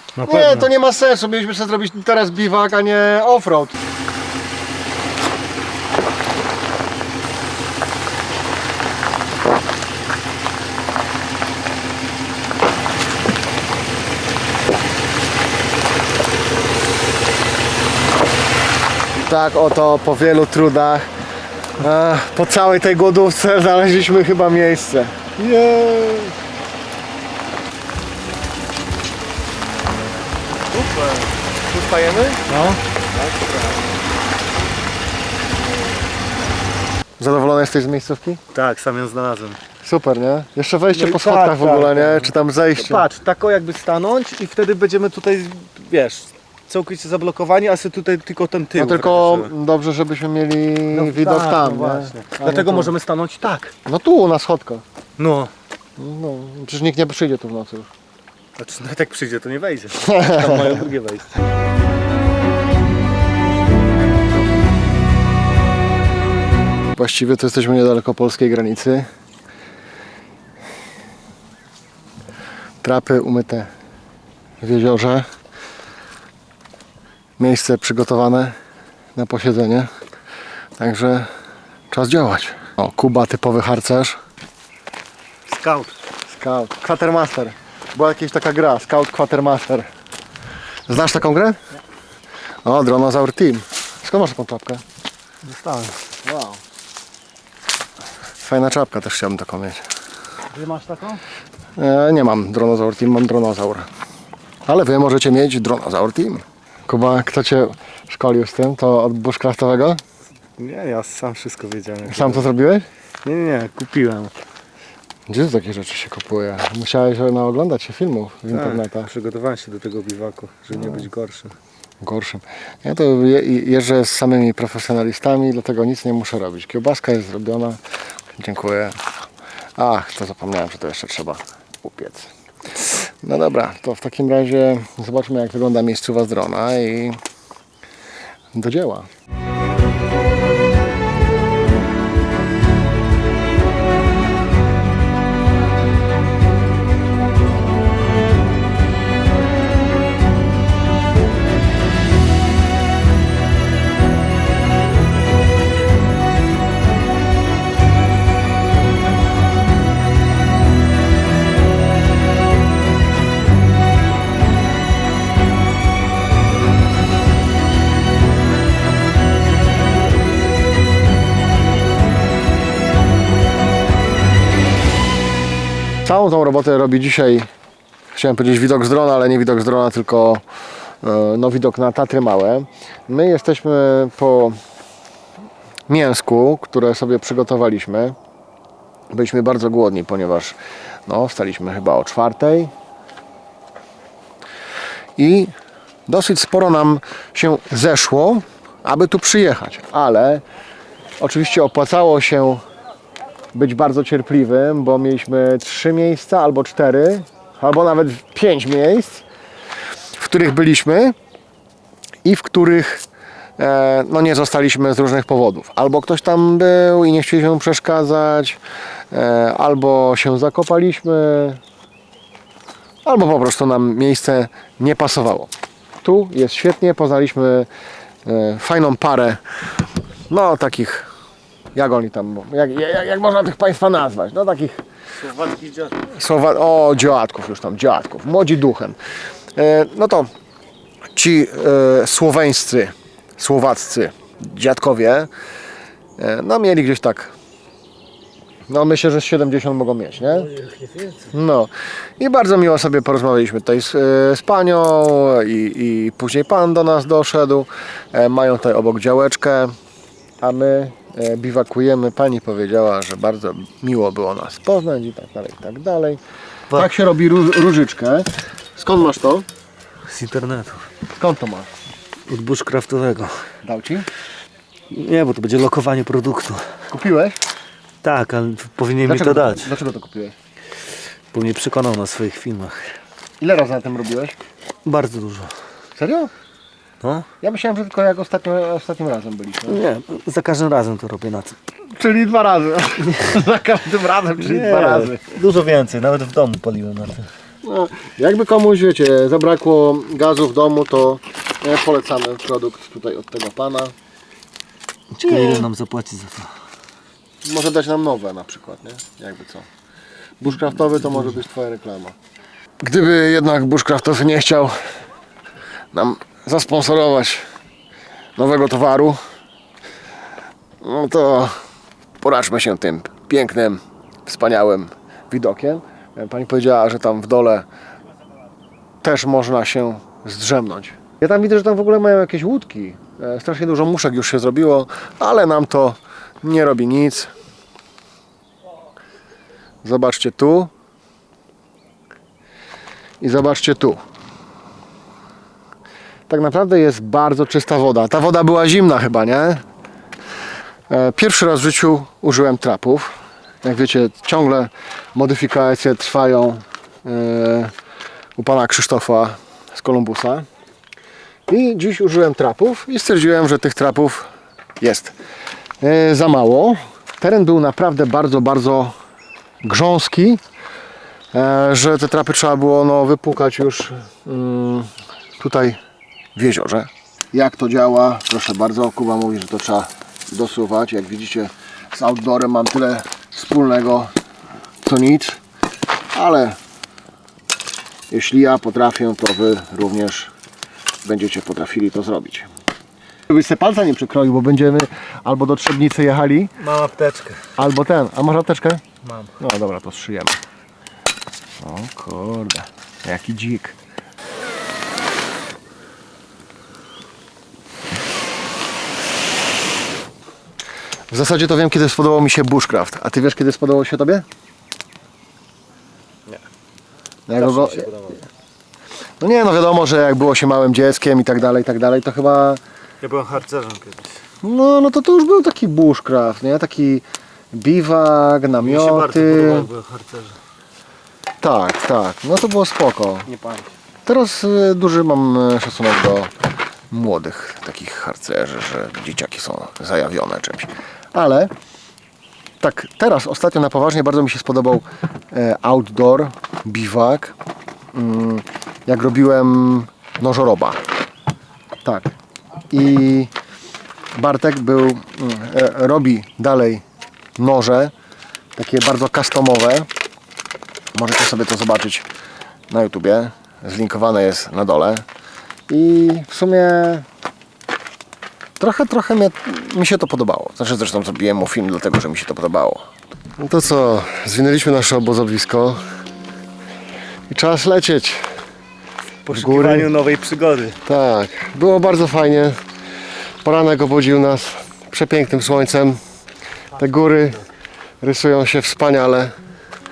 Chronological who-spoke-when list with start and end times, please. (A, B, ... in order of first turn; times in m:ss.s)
0:00.2-0:00.7 A
0:00.2-0:03.8 B
0:19.1-0:21.1 B
0:21.8-0:26.4 B
0:30.7-0:32.4 B
0:32.5-0:32.8 A
0:33.1-0:33.8 B
0:37.2-0:38.4 B
0:38.5-0:39.6 A
0:39.8-0:43.1 B
0:40.9-0:49.5 A
0:48.8-0:52.9 B
0:50.9-0:53.7 A
0:53.9-0:54.8 B
0:55.2-0:55.5 A
0:56.0-0:57.9 B
0:58.6-1:01.3 A
1:00.0-1:00.6 B
1:06.9-1:09.1 B
1:12.8-1:13.7 B
1:14.6-1:15.3 B
1:17.4-1:18.6 B
1:19.2-1:19.9 B
1:20.8-1:21.3 B
1:21.9-1:24.2 B
1:25.5-1:25.9 A
1:26.3-1:29.9 B
1:30.9-1:31.6 B
1:32.6-1:34.8 B
1:35.4-1:36.0 A
1:36.2-1:36.6 B
1:38.4-1:39.8 B
1:40.5-1:41.2 A
1:41.8-1:43.9 B
1:44.7-1:50.0 B
1:50.6-1:52.5 A
1:52.1-1:52.9 B
1:53.2-1:54.3 A
1:55.3-1:59.1 B
1:58.5-2:01.6 A
2:02.0-2:07.8 B
2:08.4-2:09.0 B
2:09.8-2:17.2 B
2:18.5-2:19.1 B
2:56.0-2:57.5 B
2:58.1-3:00.4 B
3:01.0-3:04.6 B
3:05.9-3:08.2 B
3:09.1-3:12.7 B
3:15.2-3:15.5 B
3:16.1-3:20.4 B
3:21.2-3:22.6 B
3:23.5-3:29.2 B
3:30.2-3:31.2 B
3:32.2-3:33.0 B
3:33.6-3:38.6 B
3:39.1-3:41.6 B
3:43.0-3:45.5 B
3:46.0-3:47.7 B
3:48.2-3:49.4 B
3:50.3-3:51.1 B
3:51.8-3:54.8 B
3:55.2-3:56.1 A
3:56.1-3:59.0 B
3:59.6-4:00.3 B
4:01.2-4:05.3 B
4:06.2-4:07.3 B
4:08.7-4:10.5 B
4:10.5-4:11.3 A
4:11.3-4:19.7 B
4:20.4-4:26.2 B
4:26.7-4:29.5 B
4:30.1-4:30.8 A
4:31.2-4:31.7 B
4:32.3-4:33.4 A
4:33.6-4:34.1 B
4:34.9-4:36.6 A
4:36.9-4:37.4 B
4:38.0-4:39.7 A
4:39.0-4:40.4 B
4:41.3-4:42.8 A
4:43.4-4:44.4 B
4:44.8-4:45.5 A
4:46.0-4:46.3 B
4:47.0-4:47.3 A
4:47.4-4:49.8 B
4:49.7-4:51.6 A
4:52.0-4:55.3 B
4:54.4-4:57.3 A
4:57.6-5:03.9 B
5:05.2-5:06.5 A
5:05.3-5:05.7 B
5:07.4-5:09.7 B
5:10.4-5:12.2 B
5:12.8-5:14.7 B
5:15.9-5:17.4 B
5:18.4-5:19.2 B
5:20.8-5:21.5 B
5:22.2-5:27.7 B
5:29.0-5:37.3 B
5:39.8-5:40.7 B
5:43.2-5:44.0 B
5:46.3-5:49.6 B
5:50.9-5:57.7 B
5:58.4-6:00.5 B
6:01.5-6:04.3 B
6:04.8-6:05.2 B
6:05.8-6:08.9 B
6:09.6-6:10.4 B
6:11.3-6:15.8 B
6:16.4-6:24.1 B
6:24.8-6:25.4 B
6:26.1-6:26.6 B
6:28.1-6:30.3 B
6:31.0-6:32.5 B
6:33.3-6:36.5 B
6:36.6-6:37.5 A
6:37.6-6:38.8 B
6:39.0-6:39.3 A
6:39.4-6:40.4 B
6:41.6-6:43.8 B
6:51.1-6:54.2 B
6:57.3-6:57.9 B
6:57.3-6:58.2 A
6:59.2-7:02.6 B
7:03.0-7:04.2 A
7:04.4-7:09.7 B
7:08.6-7:10.4 A
7:11.4-7:13.3 B
7:13.3-7:13.7 A
7:14.1-7:16.3 B
7:16.9-7:21.5 B
7:22.6-7:27.4 B
7:27.9-7:30.8 B
7:31.8-7:32.2 B
7:32.7-7:33.3 B
7:34.2-7:36.8 B
7:37.4-7:37.9 B
7:38.6-7:39.9 B
7:40.9-7:42.1 B
7:42.7-7:45.0 B
7:45.7-7:47.0 B
7:48.6-7:52.8 B
7:53.4-7:55.8 B
7:57.3-7:58.3 B
7:59.3-8:00.8 A
7:59.3-7:59.9 B
8:00.8-8:02.6 B
8:03.4-8:06.0 B
8:06.8-8:07.5 B
8:08.0-8:09.3 B